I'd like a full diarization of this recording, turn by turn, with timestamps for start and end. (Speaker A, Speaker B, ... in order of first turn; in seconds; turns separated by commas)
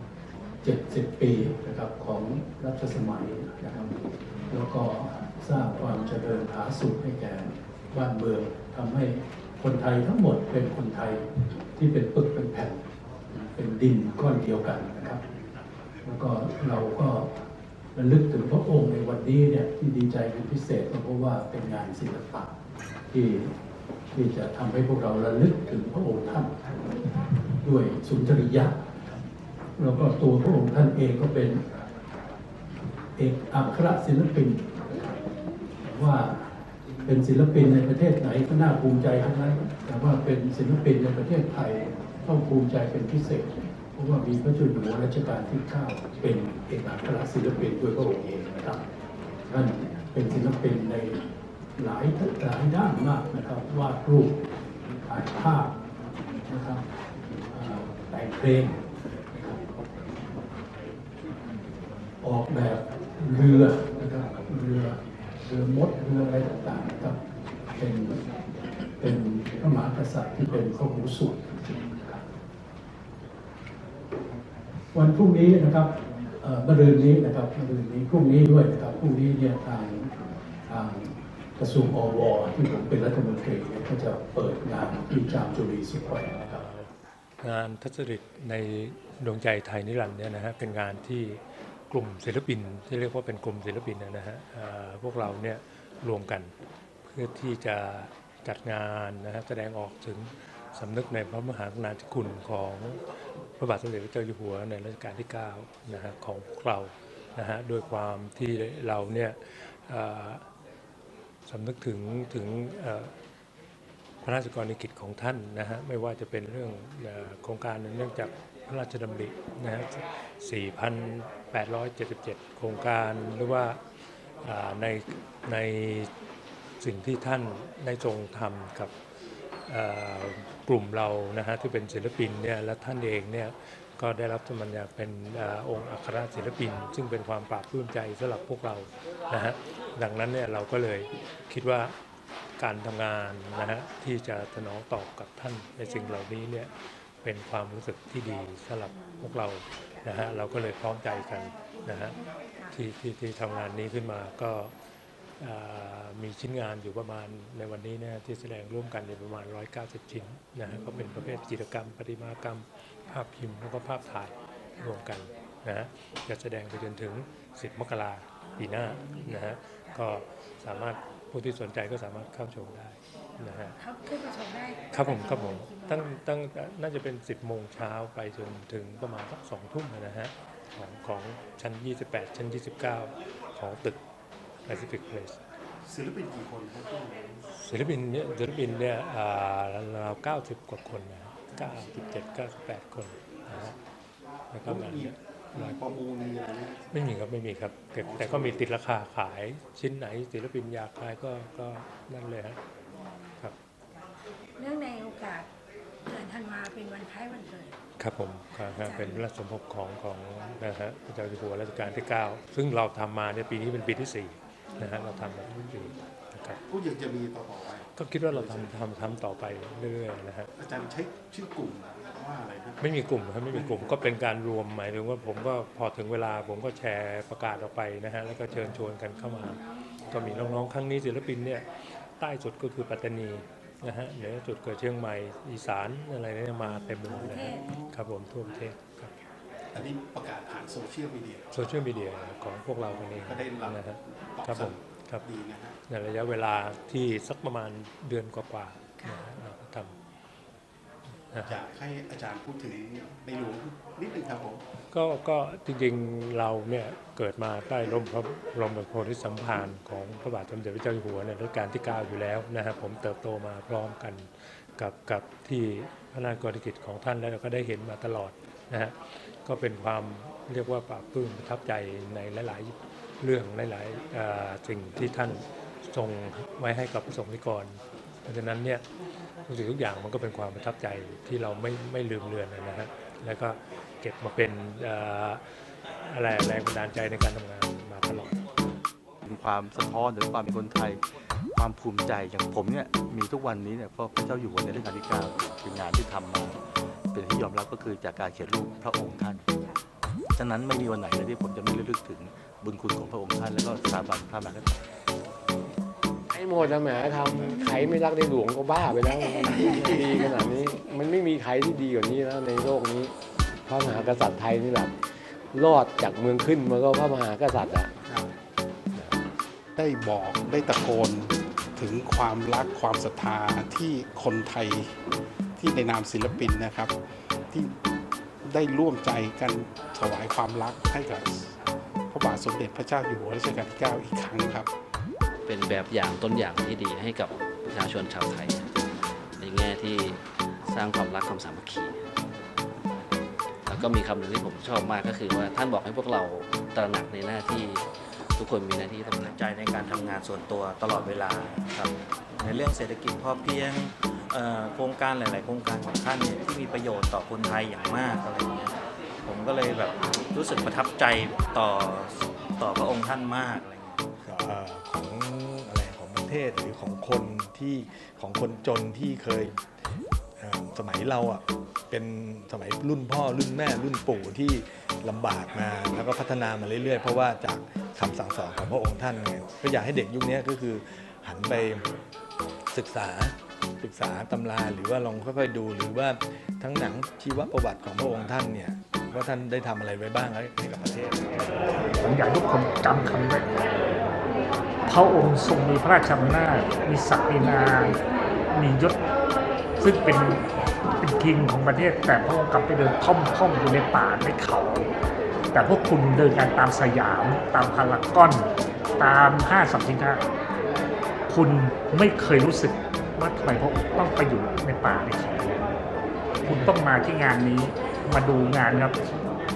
Speaker A: 0.6-4.0, Speaker A: 4.5-15.2, Speaker A: 16.0-17.3, Speaker A: 17.9-22.5, Speaker A: 23.1-23.5, Speaker A: 24.1-28.9, Speaker A: 29.8-31.6, Speaker A: 33.1-35.2, Speaker A: 35.8-36.5, Speaker A: 37.0-48.8, Speaker A: 49.5-51.2, Speaker A: 51.8-54.5, Speaker A: 55.0-55.8, Speaker A: 56.4-56.9, Speaker A: 57.5-59.7, Speaker A: 62.2-67.2, Speaker A: 67.7-68.2, Speaker A: 69.0-72.2, Speaker A: 74.9-80.1, Speaker A: 80.7-86.7, Speaker B: 86.3-96.5, Speaker B: 97.0-103.0, Speaker B: 103.6-110.4, Speaker B: 111.5-113.1, Speaker B: 114.2-123.8, Speaker B: 124.4-126.1, Speaker B: 126.8-128.9, Speaker B: 129.7-141.9, Speaker B: 142.6-152.2, Speaker C: 151.8-152.7, Speaker B: 152.7-154.7, Speaker B: 155.4-173.8, Speaker C: 168.5-169.4, Speaker C: 173.7-176.2, Speaker B: 174.9-184.0, Speaker B: 184.6-185.4, Speaker D: 185.8-187.4, Speaker B: 187.5-193.7, Speaker D: 191.5-192.0, Speaker D: 193.5-193.8, Speaker B: 194.5-195.8, Speaker D: 194.6-196.8, Speaker B: 196.9-202.6, Speaker D: 198.0-198.7, Speaker C: 203.9-205.5, Speaker C: 206.1-207.7, Speaker B: 208.0-216.6, Speaker C: 208.6-209.2, Speaker D: 216.7-218.7, Speaker B: 217.9-220.5, Speaker D: 220.6-222.8, Speaker B: 222.8-239.1, Speaker D: 223.5-223.9, Speaker C: 237.0-237.6, Speaker D: 237.1-237.9, Speaker D: 239.7-241.5, Speaker B: 241.5-245.2, Speaker D: 243.1-243.8, Speaker D: 244.3-245.8, Speaker B: 245.9-249.9, Speaker B: 251.3-251.5, Speaker D: 251.4-254.6, Speaker B: 254.9-278.8, Speaker B: 279.5-285.4, Speaker B: 285.9-288.4, Speaker E: 289.2-291.0, Speaker E: 291.5-296.6, Speaker E: 297.1-299.4, Speaker E: 300.3-304.8, Speaker F: 306.3-313.1, Speaker F: 313.7-314.9, Speaker F: 315.5-317.9, Speaker D: 319.8-324.9, Speaker D: 325.6-326.9, Speaker D: 328.4-331.5, Speaker D: 332.1-334.7, Speaker G: 335.5-338.7, Speaker G: 339.4-342.0, Speaker G: 343.7-349.3, Speaker H: 349.1-364.1, Speaker I: 364.2-369.6, Speaker I: 370.4-381.9, Speaker I: 382.7-391.7, Speaker J: 392.0-393.8, Speaker J: 394.9-398.0, Speaker J: 398.5-398.9, Speaker J: 399.8-404.9, Speaker J: 405.5-410.2, Speaker J: 411.3-415.6, Speaker J: 416.4-418.9